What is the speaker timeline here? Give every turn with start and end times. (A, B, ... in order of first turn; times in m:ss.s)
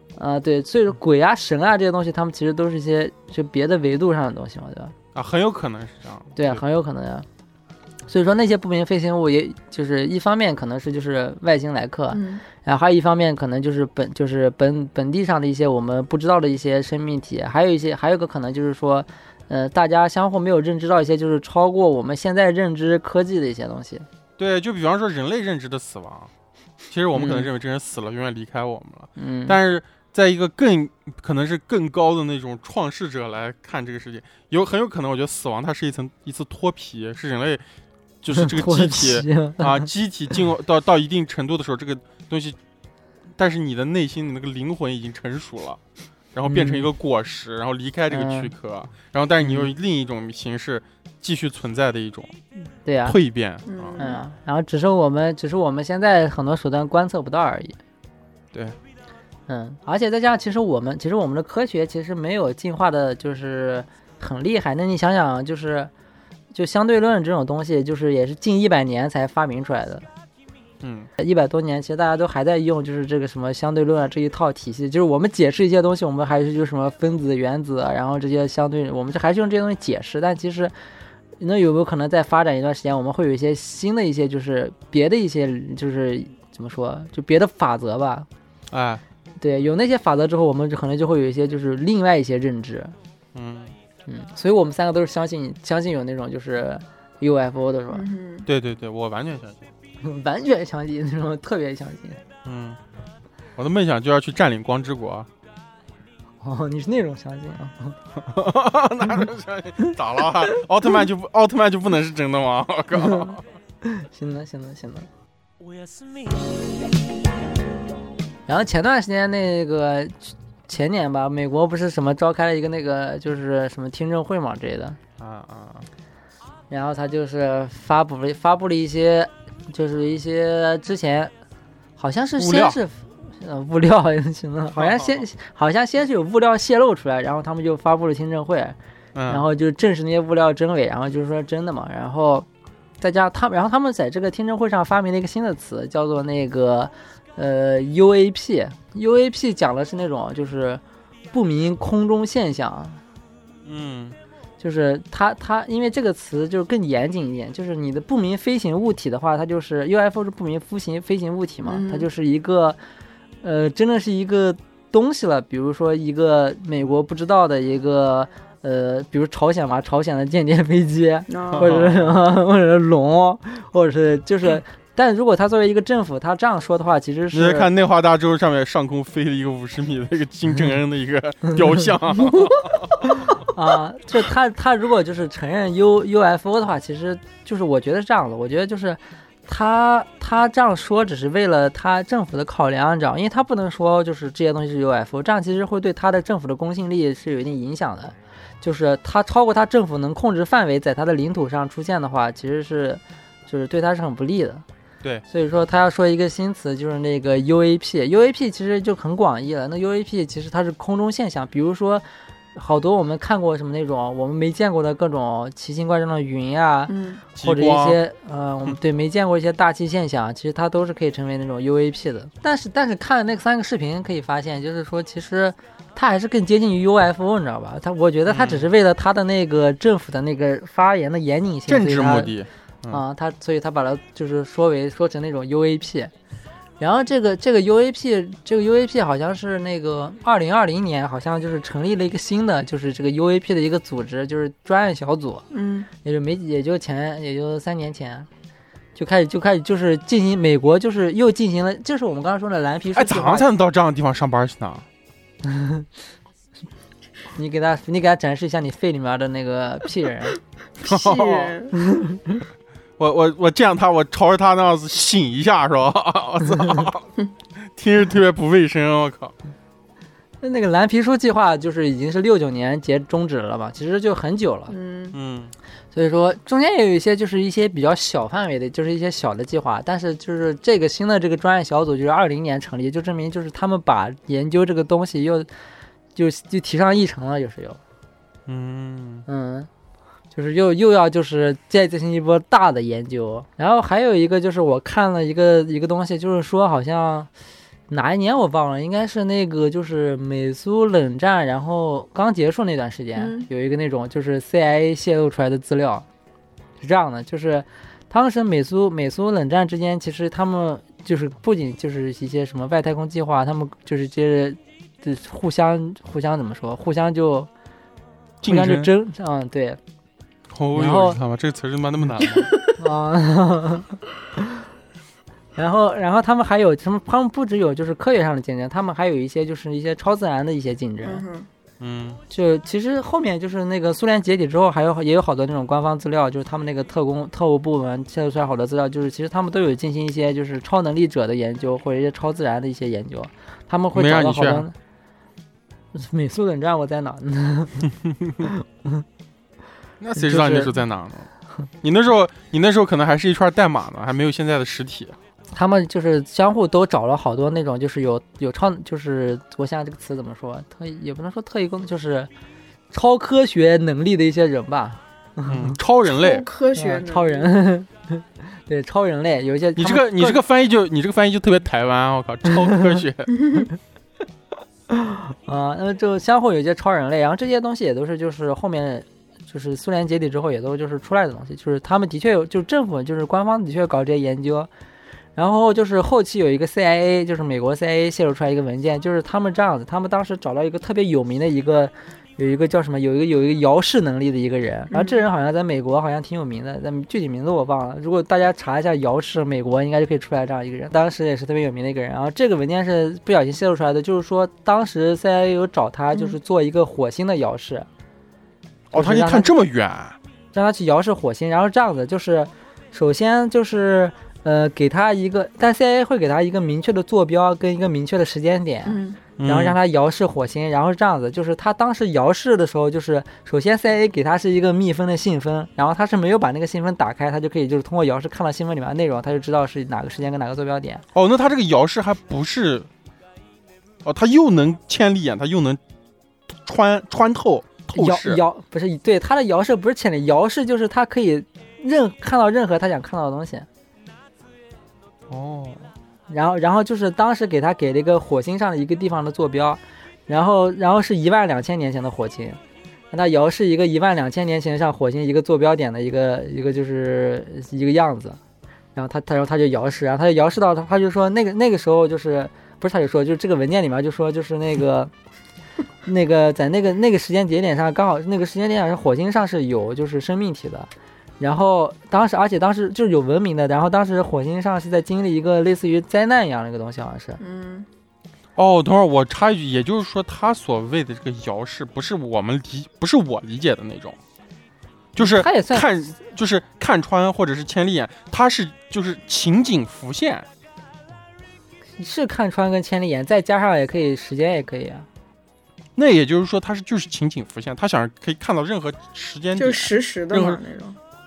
0:00.2-0:04.9 A
0:05.1-0:06.6 B
0:06.4-0:07.3 A
0:08.1-0:24.1 A
0:12.1-0:12.4 C
0:24.4-0:26.3 B
0:26.9-0:37.6 B
0:27.1-0:27.5 A
0:29.2-0:29.6 A
0:38.2-0:42.6 B
0:38.3-0:40.3 A
0:43.4-0:45.8 B
0:46.3-0:52.3 B
0:46.5-0:46.9 A
0:48.1-0:48.5 A
0:49.4-0:49.7 A
0:52.8-0:53.2 A
0:53.0-0:54.0 B
0:53.7-0:54.2 C
0:54.0-0:57.8 A
0:59.5-1:05.9 A
1:06.5-1:10.1 A
1:10.8-1:11.1 B
1:11.2-1:20.7 A
1:21.4-1:28.3 A
1:28.7-1:29.0 B
1:29.4-1:33.0 A
1:33.3-1:33.8 B
1:34.1-1:38.1 A
1:37.9-1:38.5 C
1:38.5-1:39.7 B
1:40.0-1:42.2 A
1:42.4-1:42.8 B
1:43.6-1:45.3 B
1:46.4-1:48.0 A
1:48.2-1:53.4 B
1:53.0-1:53.3 A
1:53.8-1:55.1 A
1:55.6-1:56.3 B
1:58.5-2:05.0 A
2:05.2-2:05.9 B
2:06.7-2:11.3 A
2:12.0-2:18.8 A
2:12.4-2:12.8 B
2:14.8-2:15.2 B
2:19.2-2:19.4 B
2:19.3-2:22.5 A
2:23.0-2:30.8 A
2:31.3-2:33.0 A
2:33.6-2:34.2 B
2:34.6-2:42.8 A
2:41.6-2:42.1 C
2:43.4-2:57.7 A
2:51.3-2:51.7 C
2:51.5-2:52.1 B
2:57.3-3:03.1 B
3:01.5-3:01.9 A
3:03.1-3:24.6 A
3:25.3-3:52.3 A
3:36.9-3:37.2 C
3:37.4-3:38.0 B
3:48.3-3:48.7 B
3:51.7-3:53.0 B
3:52.9-3:56.1 A
3:56.8-4:05.4 A
4:05.5-4:05.9 C
4:06.0-4:08.3 A
4:09.0-4:13.5 A
4:12.9-4:14.9 B
4:15.4-4:15.9 A
4:17.4-4:20.4 A
4:20.8-4:21.7 C
4:20.8-4:21.6 B
4:21.7-4:22.4 A
4:23.0-4:27.1 B
4:27.6-4:29.3 B
4:30.4-4:34.8 A
4:34.7-4:35.2 C
4:35.1-4:35.6 B
4:35.9-4:45.5 A
4:46.2-4:47.8 A
4:48.5-4:49.3 B
4:49.3-4:49.7 A
4:50.3-4:57.3 A
4:57.9-5:06.1 A
5:03.2-5:03.5 C
5:06.8-5:17.5 A
5:18.4-5:18.9 B
5:18.5-5:19.8 A
5:20.5-5:22.6 B
5:20.7-5:21.2 A
5:22.8-5:24.6 A
5:25.6-5:31.2 A
5:31.0-5:31.5 C
5:31.8-5:32.2 B
5:32.3-5:44.7 A
5:44.0-5:44.7 B
5:45.9-5:49.0 A
5:50.0-5:51.3 B
5:50.2-5:50.8 A
5:51.8-5:55.2 B
5:55.5-6:02.3 A
6:02.9-6:05.8 A
6:05.5-6:06.5 B
6:06.0-6:07.6 C
6:06.8-6:10.4 A
6:09.8-6:13.3 B
6:12.7-6:13.0 A
6:13.4-6:13.7 C
6:14.9-6:24.7 A
6:25.4-6:47.9 A
6:34.9-6:35.2 C
6:48.9-6:50.2 B
6:48.9-6:49.5 A
6:50.5-7:11.0 A
6:58.9-6:59.2 C
6:59.4-6:59.8 B
7:11.1-7:12.9 B
7:14.0-7:15.8 B
7:16.6-7:18.4 B
7:17.9-7:23.7 A
7:25.3-7:25.9 B
7:26.3-7:32.6 A
7:33.1-7:38.4 A
7:39.0-7:45.1 A
7:46.1-7:50.9 A
7:51.4-7:57.4 A
7:57.4-7:57.9 C
7:58.6-8:04.2 B
8:05.2-8:10.5 B
8:05.2-8:05.9 A
8:12.0-8:15.1 A
8:16.0-8:20.6 B
8:19.6-8:21.0 C